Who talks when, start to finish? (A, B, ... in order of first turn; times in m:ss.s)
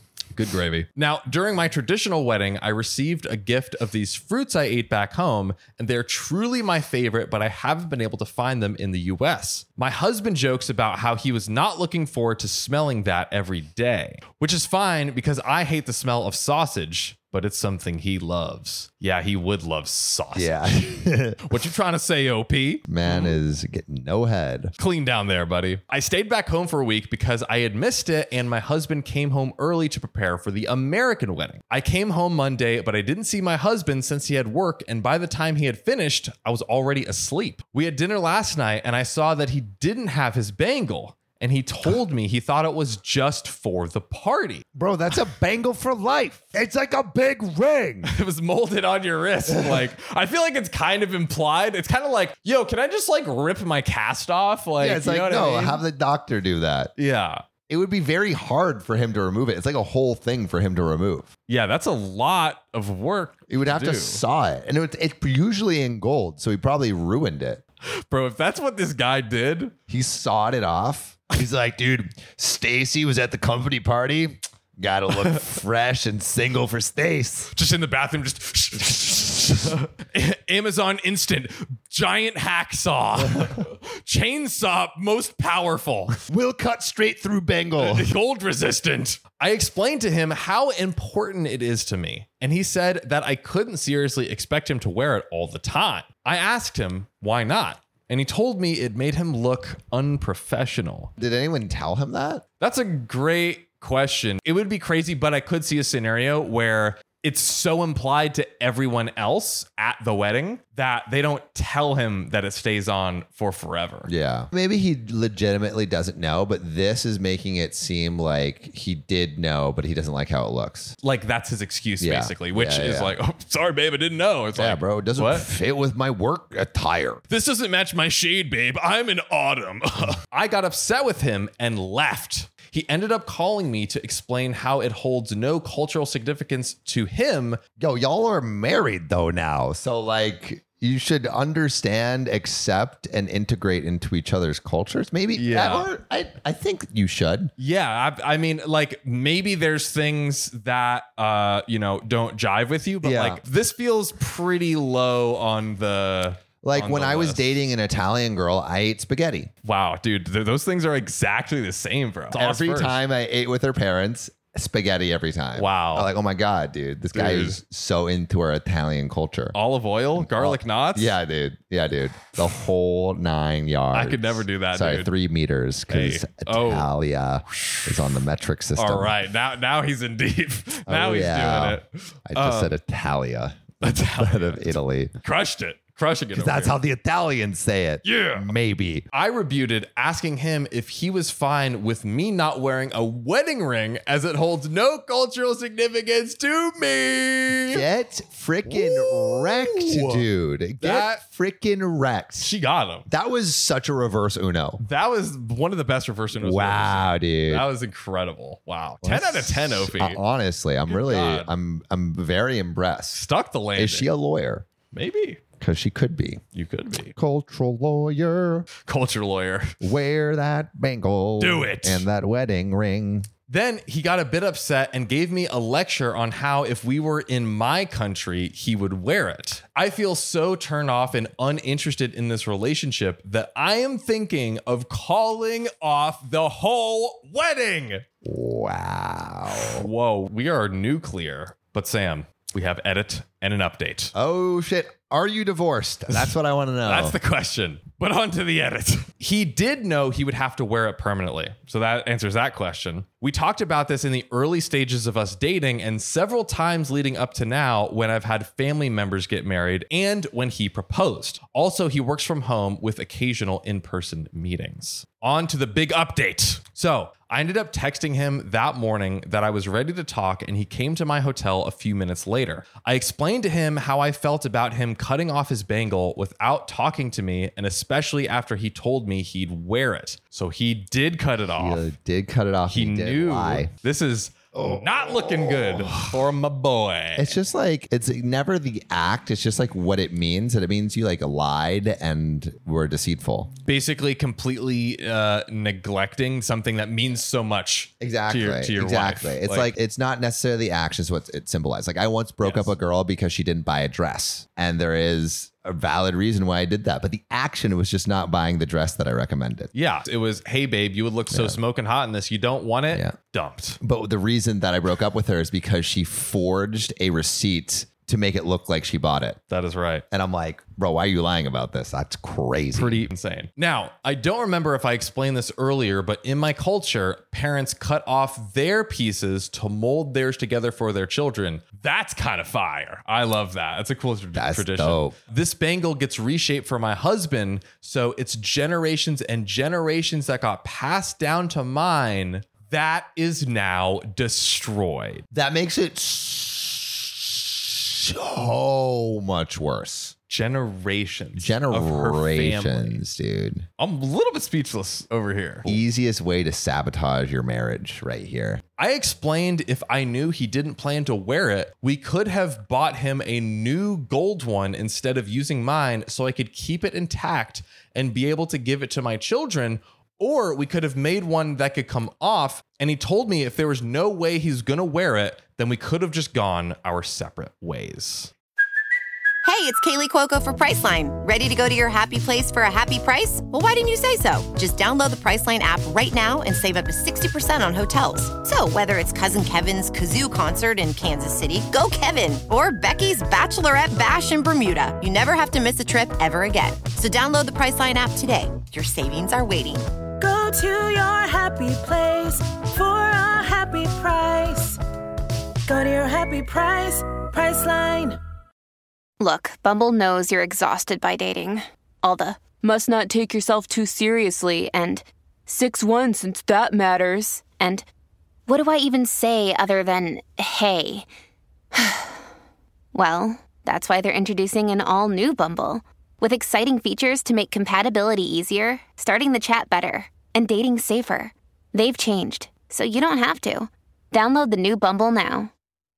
0:00.4-0:23.4 A
0:20.3-0:21.5 B
0:22.9-0:24.7 B
0:24.8-0:44.6 A
0:44.7-0:48.1 B
0:48.0-0:55.8 A
0:49.5-0:49.8 B
0:54.8-0:56.9 B
0:57.0-0:57.4 A
0:57.7-1:01.3 B
1:01.5-1:04.2 A
1:03.5-1:07.6 B
1:08.0-1:09.7 A
1:09.9-1:17.5 B
1:17.5-1:26.2 A
1:26.3-1:28.1 B
1:27.8-1:41.1 A
1:41.2-1:42.4 B
1:42.6-1:54.1 A
1:54.0-2:01.0 B
2:01.0-2:05.4 A
2:02.0-2:03.1 B
2:04.5-2:07.2 B
2:07.3-2:17.6 A
2:17.8-2:27.5 B
2:25.3-2:25.9 A
2:27.6-2:37.6 A
2:33.0-2:33.4 B
2:36.6-2:39.5 B
2:39.6-2:43.0 A
2:42.3-2:49.6 B
2:45.5-2:46.1 A
2:47.1-2:47.6 A
2:49.5-2:51.2 A
2:50.2-2:59.2 B
2:53.9-2:55.1 A
2:55.9-2:56.9 A
2:57.6-2:57.9 A
2:58.8-3:02.8 A
3:00.9-3:05.1 B
3:03.8-3:06.8 A
3:06.3-3:09.0 B
3:08.0-3:08.5 A
3:09.1-3:17.8 A
3:17.7-3:22.5 B
3:18.7-3:20.2 A
3:20.8-3:21.2 A
3:22.4-3:23.1 A
3:23.1-3:24.8 B
3:24.8-3:30.2 A
3:26.4-3:27.6 B
3:29.0-3:33.2 B
3:30.9-3:31.5 A
3:33.1-3:34.1 A
3:33.8-3:34.6 B
3:34.9-3:35.4 A
3:35.6-3:36.4 B
3:36.5-3:37.1 A
3:37.2-3:38.7 B
3:38.8-3:39.7 A
3:39.8-3:43.3 B
3:41.4-3:42.0 A
3:43.5-3:58.0 A
3:58.2-3:59.9 B
3:59.5-4:04.1 A
4:04.1-4:07.2 B
4:06.8-4:41.8 A
4:41.6-4:43.7 B
4:42.7-4:47.4 A
4:45.2-4:46.2 B
4:47.2-4:53.5 B
4:53.6-4:59.7 A
4:58.0-5:09.7 B
5:02.4-5:02.7 A
5:09.7-5:13.8 A
5:11.3-5:11.6 B
5:13.8-5:19.4 B
5:19.5-5:20.0 A
5:20.1-5:23.0 B
5:22.7-5:45.2 A
5:34.3-5:35.2 B
5:45.3-5:50.1 B
5:50.3-5:53.0 A
5:51.4-5:53.6 B
5:53.8-5:55.8 A
5:55.6-5:58.6 B
5:58.8-6:18.3 A
6:19.4-6:39.9 C
6:40.2-6:44.8 D
6:45.7-6:48.2 D
6:49.2-6:57.8 E
6:58.5-7:01.0 E
7:01.7-7:02.2 E
7:02.9-7:15.5 E